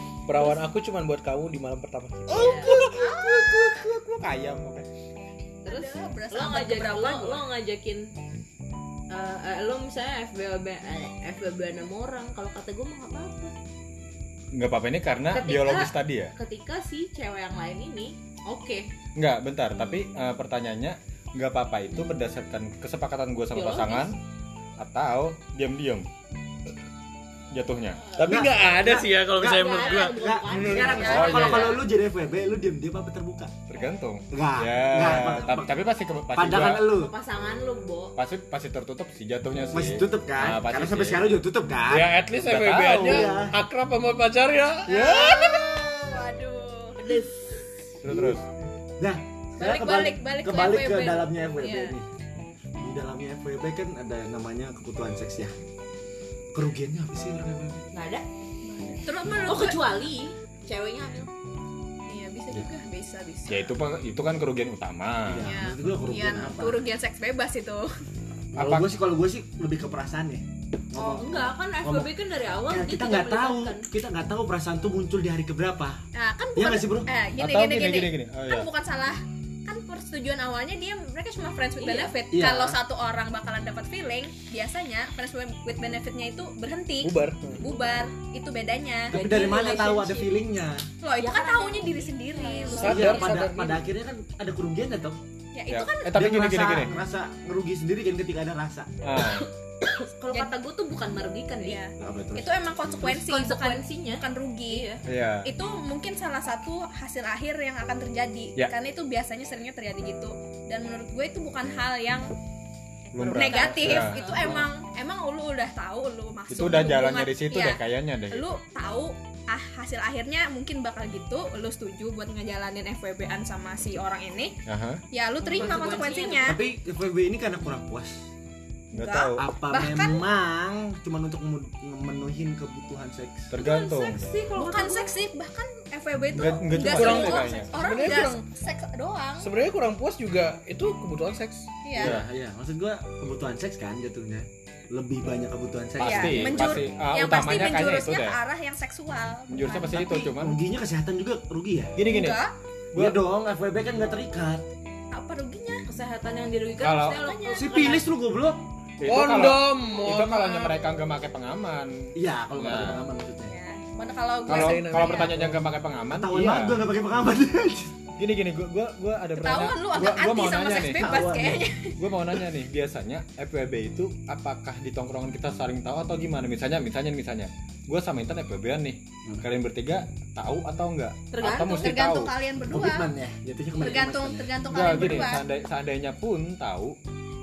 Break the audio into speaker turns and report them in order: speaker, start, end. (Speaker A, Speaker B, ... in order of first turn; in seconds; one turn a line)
Speaker A: 0.3-3.0
Speaker B: 0.3-0.6
Speaker C: 2.3-4.9
Speaker B: 2.3-2.8
Speaker D: 2.8-3.9
Speaker D: 5.7-7.4
Speaker B: 5.7-8.1
Speaker B: 9.1-13.5
Speaker C: 14.5-16.3
Speaker B: 15.3-18.9
Speaker C: 19.2-24.2
Speaker B: 23.5-24.1
Speaker C: 24.8-26.1
Speaker C: 27.5-28.0
Speaker A: 28.2-31.3
Speaker B: 28.2-28.5
Speaker E: 28.2-33.5
Speaker B: 29.5-31.8
Speaker D: 30.6-31.6
Speaker C: 31.1-31.8
Speaker C: 33.7-36.9
Speaker E: 34.3-35.8
Speaker E: 36.3-37.1
Speaker B: 36.7-38.2
Speaker C: 38.2-41.4
Speaker E: 39.7-42.2
Speaker A: 41.9-45.8
Speaker C: 42.4-43.4
Speaker E: 42.9-43.5
Speaker D: 44.9-47.1
Speaker B: 47.0-47.3
Speaker E: 48.0-48.4
Speaker C: 48.0-48.5
Speaker E: 49.0-52.1
Speaker D: 49.6-52.0
Speaker E: 52.8-55.6
Speaker E: 56.5-57.9
Speaker B: 57.9-58.2
Speaker D: 58.6-59.8
Speaker B: 59.4-61.3
Speaker D: 62.1-63.7
Speaker C: 63.5-65.6
Speaker E: 65.3-66.8
Speaker D: 65.4-67.9
Speaker E: 68.5-72.1
Speaker C: 68.5-69.0
Speaker B: 71.0-73.9
Speaker E: 72.7-76.0
Speaker D: 76.1-89.2
Speaker E: 76.6-77.1
Speaker C: 77.4-78.7
Speaker B: 81.8-82.2
Speaker E: 82.3-82.8
Speaker A: 87.0-87.6
Speaker B: 89.1-90.4
Speaker E: 89.1-90.9
Speaker D: 91.0-93.2
Speaker B: 91.2-93.4
Speaker A: 92.8-93.9
Speaker E: 92.9-95.2
Speaker D: 95.5-96.2
Speaker C: 95.7-96.9
Speaker E: 96.1-98.9
Speaker C: 99.0-99.5
Speaker B: 99.8-101.8
Speaker D: 100.3-100.6
Speaker D: 101.6-104.9
Speaker E: 102.0-103.1
Speaker B: 103.0-105.0
Speaker C: 105.0-105.5
Speaker D: 105.4-112.3
Speaker C: 113.1-114.7
Speaker B: 113.2-114.5
Speaker D: 113.2-124.5
Speaker C: 116.5-118.5
Speaker C: 124.7-125.0
Speaker D: 125.1-126.6
Speaker B: 125.5-126.6
Speaker E: 126.5-128.2
Speaker C: 128.9-129.4
Speaker D: 128.9-130.2
Speaker E: 129.3-133.5
Speaker C: 133.5-134.3
Speaker B: 133.6-135.2
Speaker D: 134.5-139.5
Speaker C: 136.3-137.8
Speaker A: 136.8-138.4
Speaker A: 139.4-141.7
Speaker D: 141.8-142.2
Speaker E: 141.9-146.8
Speaker C: 142.0-142.3
Speaker C: 146.0-148.4
Speaker D: 146.0-150.0
Speaker C: 149.5-150.6
Speaker E: 149.9-152.0
Speaker C: 151.9-153.2
Speaker D: 152.1-152.5
Speaker E: 152.9-154.7
Speaker D: 155.1-155.8
Speaker B: 155.9-158.1
Speaker C: 156.8-157.3
Speaker D: 157.0-158.0
Speaker E: 157.6-158.6
Speaker C: 159.0-163.1
Speaker A: 159.1-160.5
Speaker D: 160.1-160.7
Speaker E: 162.2-163.5
Speaker D: 163.5-165.4
Speaker C: 164.5-166.8
Speaker A: 164.5-165.7
Speaker E: 166.1-168.0
Speaker C: 168.2-171.1
Speaker D: 169.3-172.0
Speaker E: 170.9-171.7
Speaker C: 172.0-182.4
Speaker B: 181.3-181.9
Speaker D: 181.5-183.1
Speaker E: 182.6-184.6
Speaker D: 183.8-185.4
Speaker C: 184.7-187.0